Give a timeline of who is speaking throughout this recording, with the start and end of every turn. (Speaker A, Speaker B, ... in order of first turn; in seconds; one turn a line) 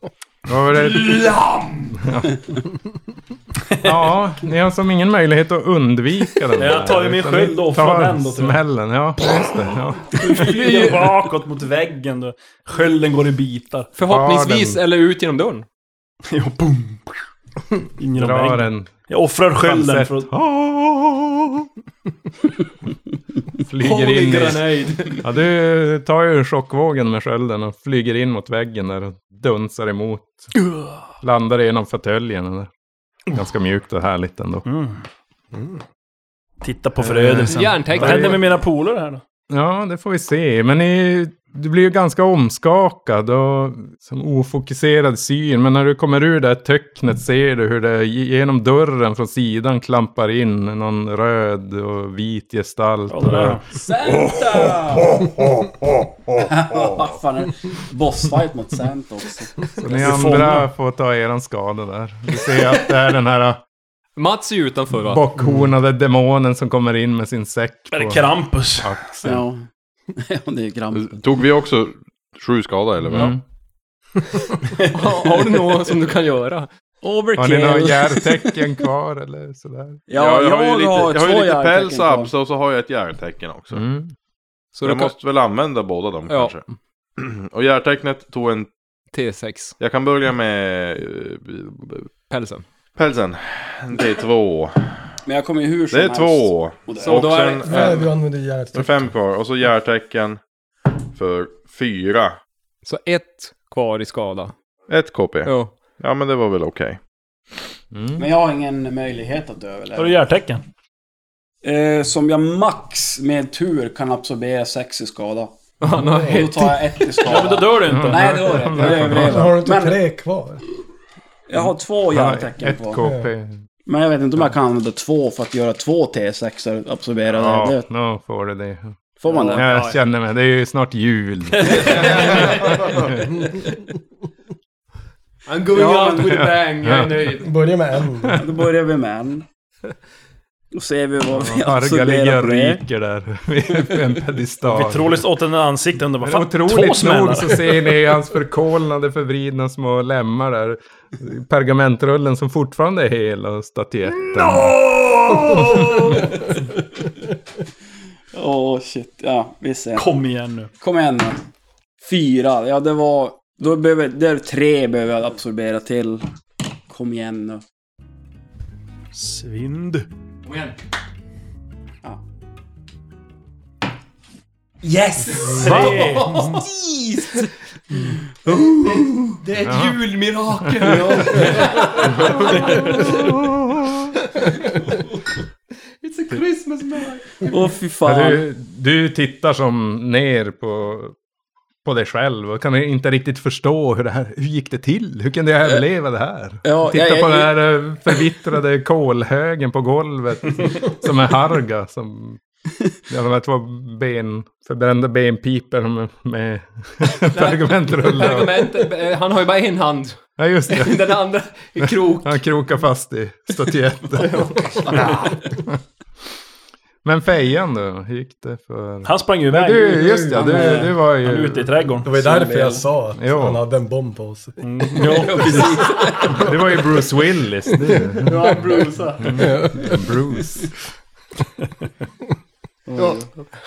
Speaker A: 0.5-2.5
Speaker A: 3.8-10.4
Speaker B: 6.5-8.6
Speaker B: 10.1-13.9
Speaker C: 13.9-15.7
Speaker A: 14.0-14.8
Speaker B: 16.3-17.2
Speaker B: 18.0-20.3
Speaker A: 18.1-18.9
Speaker A: 19.6-21.6
Speaker A: 23.6-30.5
Speaker C: 23.8-25.2
Speaker A: 31.2-32.7
Speaker A: 33.3-34.6
Speaker B: 34.6-35.0
Speaker B: 36.6-39.2
Speaker A: 37.0-38.4
Speaker C: 37.5-38.5
Speaker A: 39.5-57.0
Speaker B: 53.1-53.6
Speaker D: 53.8-55.1
Speaker D: 56.4-59.6
Speaker A: 59.8-63.6
Speaker B: 59.9-60.7
Speaker C: 64.2-65.2
Speaker A: 65.0-69.4
Speaker B: 67.9-69.0
Speaker D: 69.2-71.2
Speaker E: 70.9-73.3
Speaker A: 73.1-73.4
Speaker C: 74.9-76.7
Speaker D: 77.0-78.5
Speaker A: 77.4-80.1
Speaker D: 80.1-82.3
Speaker E: 80.1-83.8
Speaker A: 83.7-84.1
Speaker C: 84.8-85.1
Speaker E: 84.8-86.6
Speaker C: 86.3-86.6
Speaker E: 87.2-88.7
Speaker C: 89.1-89.8
Speaker E: 89.8-92.1
Speaker C: 92.3-92.6
Speaker E: 93.0-95.0
Speaker D: 95.2-97.3
Speaker E: 95.9-98.1
Speaker C: 97.0-98.0
Speaker F: 97.6-99.1
Speaker E: 98.7-100.4
Speaker E: 101.1-102.4
Speaker C: 102.8-104.5
Speaker E: 104.9-107.0
Speaker C: 105.4-105.7
Speaker A: 107.9-108.2
Speaker D: 108.2-110.2
Speaker B: 110.0-110.6
Speaker D: 111.6-115.5
Speaker C: 115.8-117.0
Speaker D: 116.2-120.0
Speaker B: 117.2-119.2
Speaker A: 117.8-119.5
Speaker F: 119.1-120.6
Speaker D: 121.5-123.0
Speaker A: 121.5-123.6
Speaker F: 123.0-123.3
Speaker D: 123.8-127.8
Speaker A: 127.3-129.0
Speaker D: 129.2-129.7
Speaker C: 129.5-130.0
Speaker A: 129.5-133.4
Speaker C: 131.6-132.8
Speaker E: 131.8-133.0
Speaker C: 135.5-137.5
Speaker D: 135.7-136.3
Speaker A: 136.1-137.4
Speaker F: 137.4-138.4
Speaker D: 138.4-139.4
Speaker D: 140.7-142.8
Speaker A: 141.3-145.2
Speaker B: 144.6-147.8
Speaker A: 146.2-154.8
Speaker B: 154.2-156.5
Speaker D: 158.3-160.1
Speaker B: 159.9-160.7
Speaker D: 160.8-161.4
Speaker D: 162.0-166.2
Speaker D: 166.9-167.6
Speaker B: 169.1-170.1
Speaker C: 170.4-170.8
Speaker C: 174.8-177.5
Speaker D: 175.1-175.9
Speaker B: 175.5-176.6
Speaker C: 178.4-183.4
Speaker D: 178.5-179.1
Speaker A: 179.6-180.0
Speaker A: 180.6-181.5
Speaker D: 180.8-181.9
Speaker A: 182.0-184.0
Speaker C: 184.4-185.1
Speaker C: 186.0-187.6
Speaker D: 187.4-188.4
Speaker A: 188.1-191.1
Speaker A: 191.8-202.4
Speaker D: 196.6-197.5
Speaker A: 203.1-208.7
Speaker C: 207.3-212.4
Speaker A: 210.4-211.1
Speaker A: 211.8-215.8
Speaker C: 214.2-215.1
Speaker A: 217.0-221.7
Speaker B: 219.0-222.1
Speaker D: 220.2-220.9
Speaker F: 222.0-225.2
Speaker D: 222.1-222.8
Speaker A: 223.2-223.6
Speaker B: 224.6-225.8
Speaker D: 225.0-226.5
Speaker C: 225.7-226.4
Speaker A: 226.3-228.6
Speaker D: 228.2-229.5
Speaker A: 229.2-230.8
Speaker F: 229.3-230.2
Speaker D: 232.9-233.3